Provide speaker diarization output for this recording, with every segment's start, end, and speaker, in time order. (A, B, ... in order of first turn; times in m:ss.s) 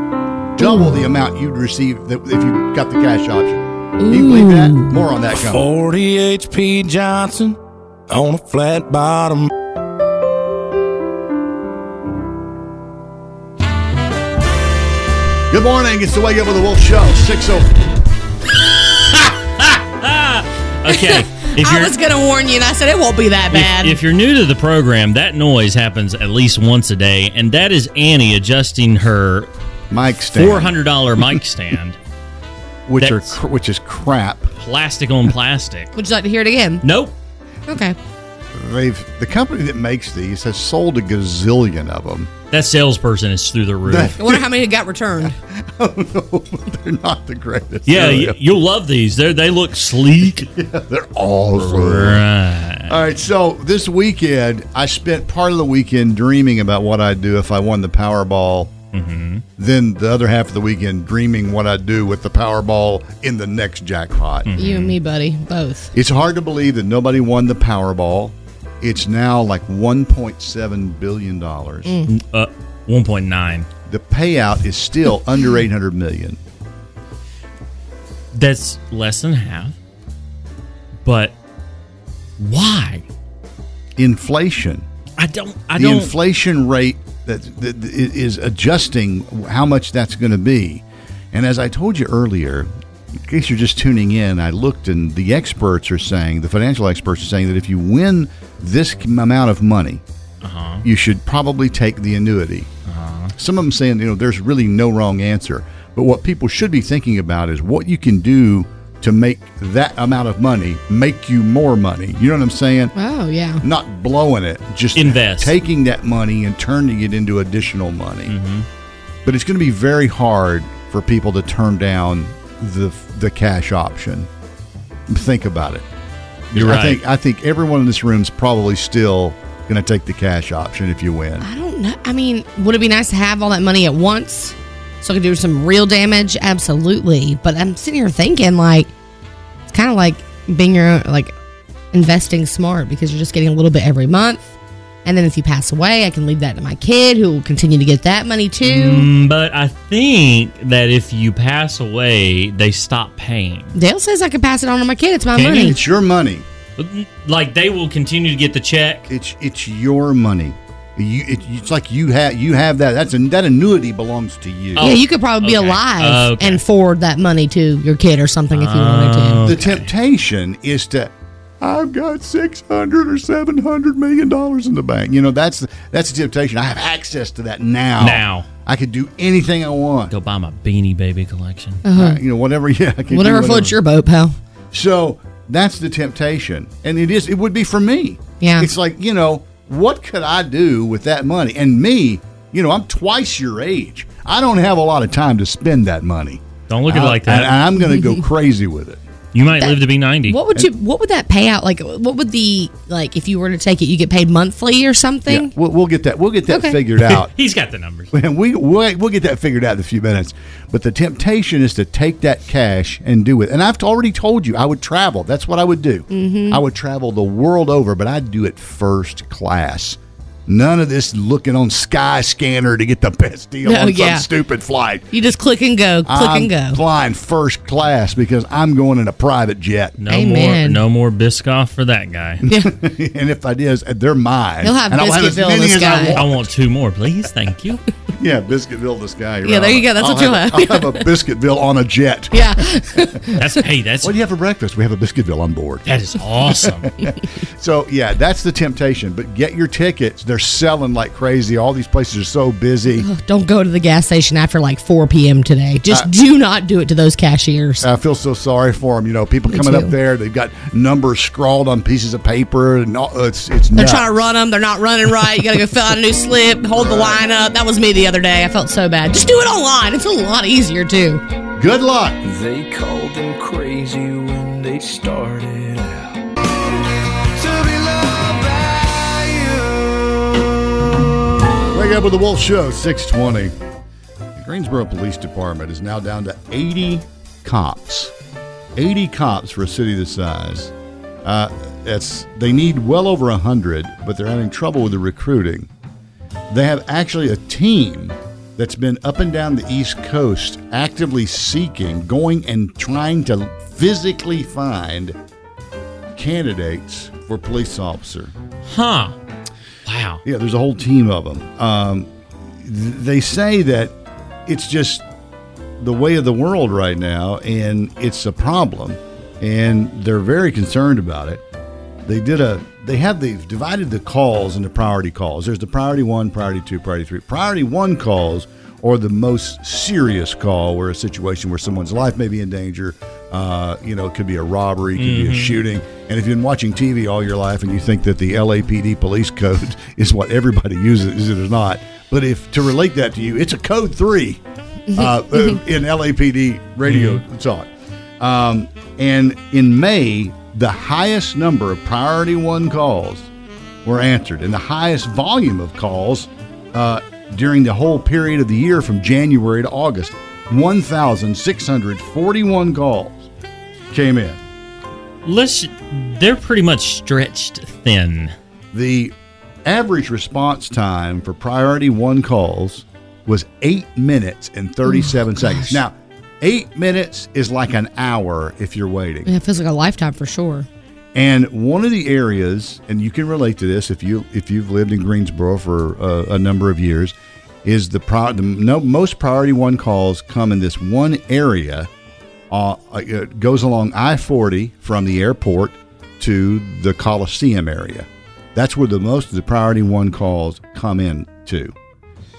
0:00.6-0:05.7 A
0:00.6-0:01.0 B
0:04.0-0:05.0 B
0:05.5-0:07.6 C
0:08.1-0:09.5 C
0:15.5-0:18.0 A
0:19.7-0:22.0 D
0:20.9-0:24.0 B
0:23.5-0:29.5 D
0:29.9-0:31.2 A
0:30.2-0:32.0 D
0:32.9-0:34.5 A
0:33.0-0:33.4 D
0:34.6-0:35.9 D
0:36.0-0:36.8 B
0:36.8-0:37.1 D
0:37.7-0:38.0 B
0:38.5-0:42.3 A
0:42.5-0:44.2 D
0:43.9-0:44.5 A
0:44.2-0:45.4 B
0:45.5-0:48.4 A
0:47.9-0:50.5 D
0:50.4-0:52.2 A
0:51.6-0:53.0 D
0:52.9-0:58.8 A
0:58.9-0:59.4 D
0:59.6-1:04.5 A
1:04.5-1:05.0 D
1:04.6-1:05.9 B
1:05.9-1:12.0 A
1:12.1-1:13.7 D
1:13.9-1:16.4 A
1:18.3-1:19.8 D
1:21.0-1:21.4 D
1:22.4-1:23.0 D
1:24.0-1:24.9 A
1:25.2-1:26.1 D
1:25.8-1:40.0 A
1:40.4-1:40.8 D
1:40.8-1:42.7 A
1:42.9-1:43.3 D
1:43.4-1:52.9 A
1:53.0-1:53.6 B
1:53.6-1:58.4 A
1:55.0-1:55.5 D
1:58.3-1:58.7 D
1:59.2-2:04.3 A
2:05.1-2:05.9 A
2:06.5-2:11.5 A
2:06.5-2:07.0 D
2:11.4-2:18.9 B
2:19.7-2:21.4 B
2:21.9-2:24.5 B
2:25.0-2:29.1 B
2:28.6-2:33.8 D
2:33.8-2:35.8 B
2:35.4-2:35.8 D
2:35.5-2:36.5 A
2:36.8-2:39.1 D
2:39.1-2:44.9 A
2:44.8-2:46.6 D
2:44.8-2:49.4 B
2:48.5-2:49.9 D
2:49.4-3:00.1 A
2:58.0-2:58.5 D
3:00.1-3:01.8 D
3:01.8-3:02.2 B
3:01.9-3:03.8 A
3:03.1-3:04.4 B
3:04.7-3:19.0 A
3:08.4-3:08.7 B
3:16.7-3:17.6 D
3:17.8-3:18.2 B
3:19.3-3:20.4 D
3:19.6-3:25.5 B
3:25.3-3:27.3 A
3:26.5-3:26.8 B
3:27.0-3:28.1 D
3:28.1-3:45.1 A
3:36.1-3:36.6 B
3:43.6-3:44.3 B
3:45.1-3:46.8 B
3:46.1-3:50.0 A
3:50.0-3:52.4 D
3:50.1-3:50.8 B
3:52.4-3:56.5 A
3:52.5-3:52.7 B
3:54.6-3:56.2 B
3:56.1-3:57.8 D
3:58.1-4:03.2 A
3:59.4-4:01.1 B
4:02.3-4:03.4 B
4:03.4-4:04.1 D
4:04.0-4:13.1 A
4:05.9-4:06.9 D
4:13.0-4:17.9 B
4:17.8-4:24.2 A
4:19.5-4:19.9 B
4:23.7-4:31.2 B
4:26.8-4:27.2 A
4:31.6-4:32.2 A
4:32.3-4:35.6 E
4:32.4-4:33.2 C
4:34.6-4:35.9 C
4:37.4-4:39.5 E
4:41.7-4:43.6 A
4:44.3-4:48.1 A
4:48.8-4:55.7 A
4:56.5-5:05.2 A
5:06.1-5:08.3 A
5:08.7-5:09.2 D
5:09.9-5:10.2 D
5:10.2-5:14.0 A
5:14.5-5:15.1 A
5:15.8-5:21.4 A
5:22.1-5:44.4 A
5:35.0-5:35.6 D
5:44.9-5:45.5 B
5:44.9-5:47.7 A
5:46.9-5:47.2 D
5:48.2-5:53.3 A
5:53.8-6:03.3 A
6:03.9-6:04.4 A
6:05.2-6:08.3 D
6:08.7-6:09.1 A
6:09.6-6:19.3 A
6:14.9-6:15.8 B
6:19.3-6:20.7 B
6:21.1-6:31.9 A
6:32.5-6:41.8 A